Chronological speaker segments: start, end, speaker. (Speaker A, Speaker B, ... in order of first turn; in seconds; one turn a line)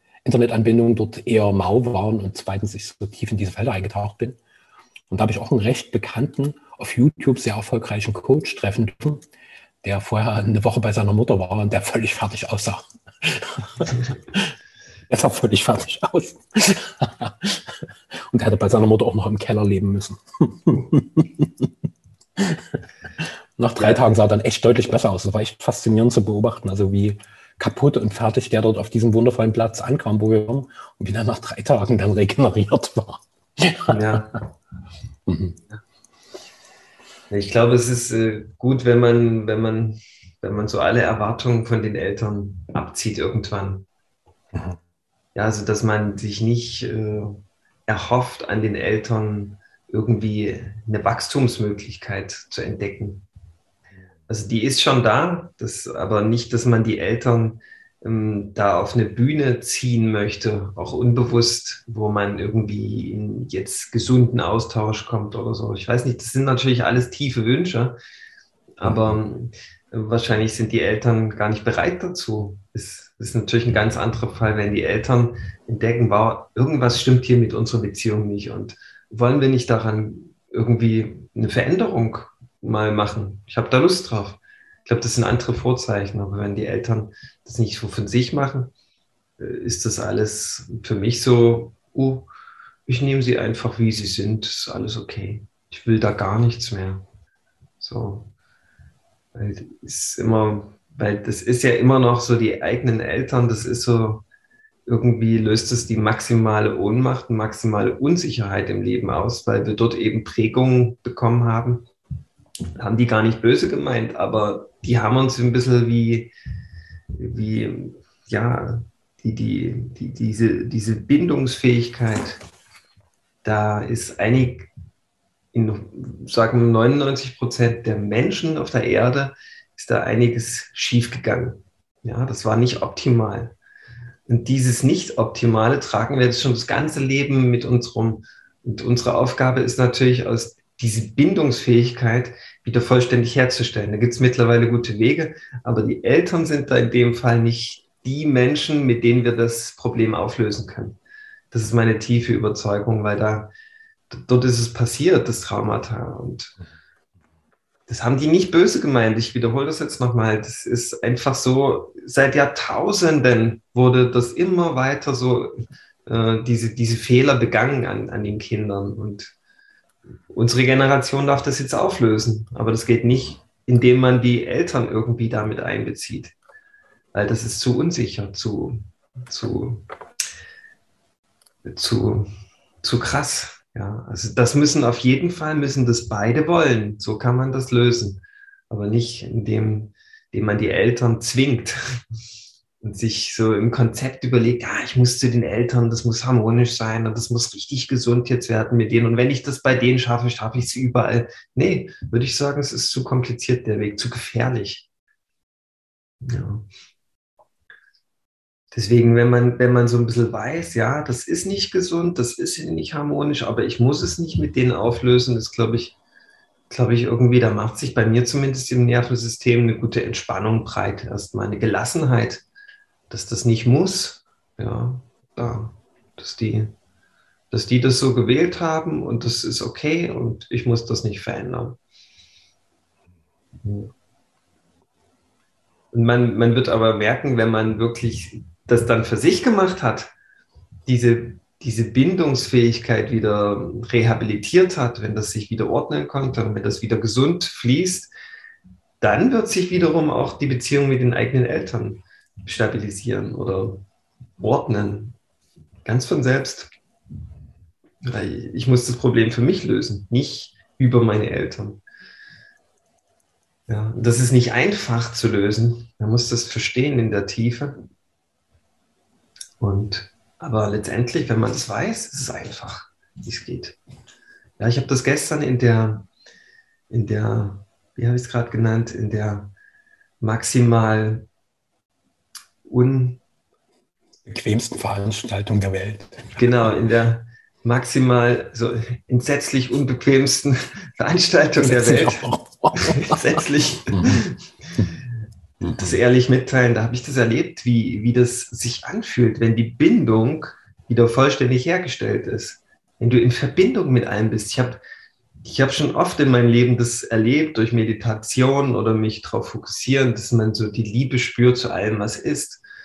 Speaker A: 0.2-4.4
Speaker A: 5.1-9.2
Speaker A: 9.8-14.6
Speaker A: 15.1-21.7
Speaker A: 22.4-34.2
Speaker B: 33.9-34.3
Speaker A: 35.3-35.6
Speaker B: 37.3-43.9
Speaker A: 44.5-44.8
Speaker B: 45.3-53.2
Speaker B: 54.3-68.0
Speaker B: 68.8-88.7
Speaker A: 68.8-69.2
Speaker B: 89.4-92.3
Speaker B: 92.9-97.0
Speaker B: 97.8-98.3
Speaker B: 99.3-104.2
Speaker B: 104.9-111.9
Speaker B: 112.8-116.3
Speaker B: 117.2-122.4
Speaker B: 123.4-124.7
Speaker B: 125.5-133.6
Speaker B: 134.3-151.0
Speaker B: 151.5-153.5
Speaker B: 154.1-156.5
Speaker B: 157.9-165.5
Speaker B: 166.1-169.3
Speaker B: 170.3-176.3
Speaker B: 177.1-179.8
Speaker B: 181.6-182.3
Speaker B: 182.8-191.8
Speaker B: 192.8-204.8
Speaker B: 206.2-206.7
Speaker B: 208.7-215.9
Speaker B: 216.7-222.4
Speaker B: 223.1-226.7
Speaker B: 227.5-231.8
Speaker B: 233.6-233.9
Speaker B: 235.9-240.1
Speaker B: 240.8-248.1
Speaker B: 249.0-253.8
Speaker B: 254.4-255.2
Speaker B: 255.8-256.7
Speaker B: 258.0-261.8
Speaker B: 263.7-267.8
Speaker B: 269.6-273.8
Speaker B: 274.6-276.1
Speaker B: 276.9-279.5
Speaker B: 280.2-281.2
Speaker B: 282.7-283.2
Speaker A: 284.2-286.7
Speaker B: 286.3-292.3
Speaker A: 291.6-293.2
Speaker B: 292.8-294.4
Speaker A: 293.9-294.2
Speaker B: 295.7-304.8
Speaker B: 305.4-312.6